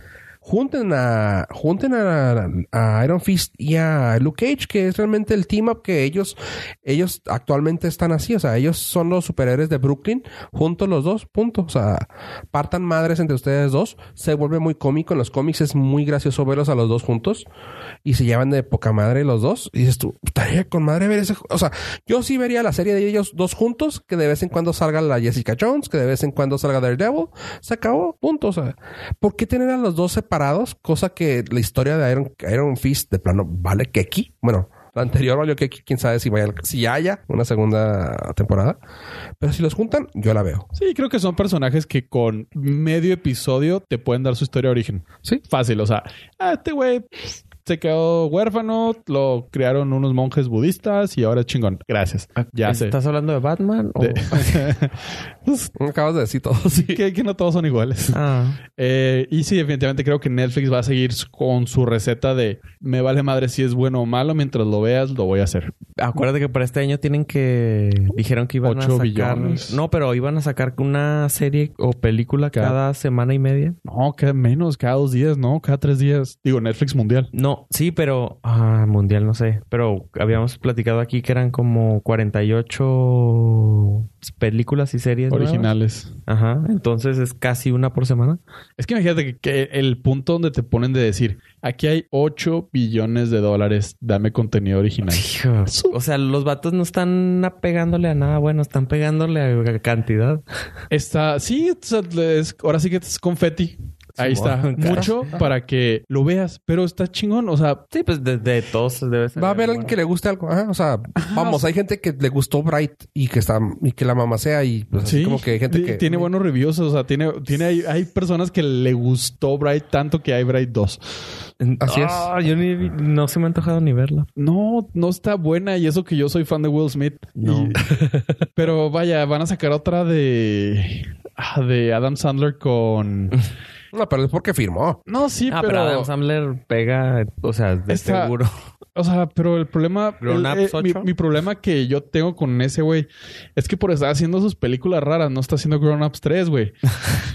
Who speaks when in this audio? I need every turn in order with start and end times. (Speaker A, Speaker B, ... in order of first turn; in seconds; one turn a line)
Speaker A: 0.4-17.4
Speaker A: 18.0-38.8
Speaker A: 39.4-40.7
Speaker B: 40.7-52.9
Speaker C: 52.4-54.7
Speaker B: 54.0-55.7
Speaker A: 55.8-57.0
Speaker B: 56.7-58.2
Speaker C: 58.1-58.6
Speaker B: 58.7-65.7
Speaker C: 66.0-73.8
Speaker B: 68.6-69.8
Speaker B: 73.8-77.3
Speaker C: 77.3-85.7
Speaker B: 85.3-86.1
Speaker C: 86.3-88.4
Speaker B: 88.8-96.0
Speaker C: 95.1-100.6
Speaker B: 100.9-107.8
Speaker C: 104.2-105.3
Speaker C: 107.9-110.0
Speaker A: 109.4-116.1
Speaker B: 111.2-111.6
Speaker B: 115.0-121.4
Speaker C: 121.6-124.3
Speaker A: 121.8-122.3
Speaker B: 124.3-127.8
Speaker C: 127.3-127.8
Speaker A: 127.8-128.4
Speaker B: 128.6-133.3
Speaker A: 133.9-135.0
Speaker B: 135.1-136.1
Speaker C: 135.5-138.5
Speaker B: 137.9-138.3
Speaker B: 138.9-147.2
Speaker C: 140.2-141.1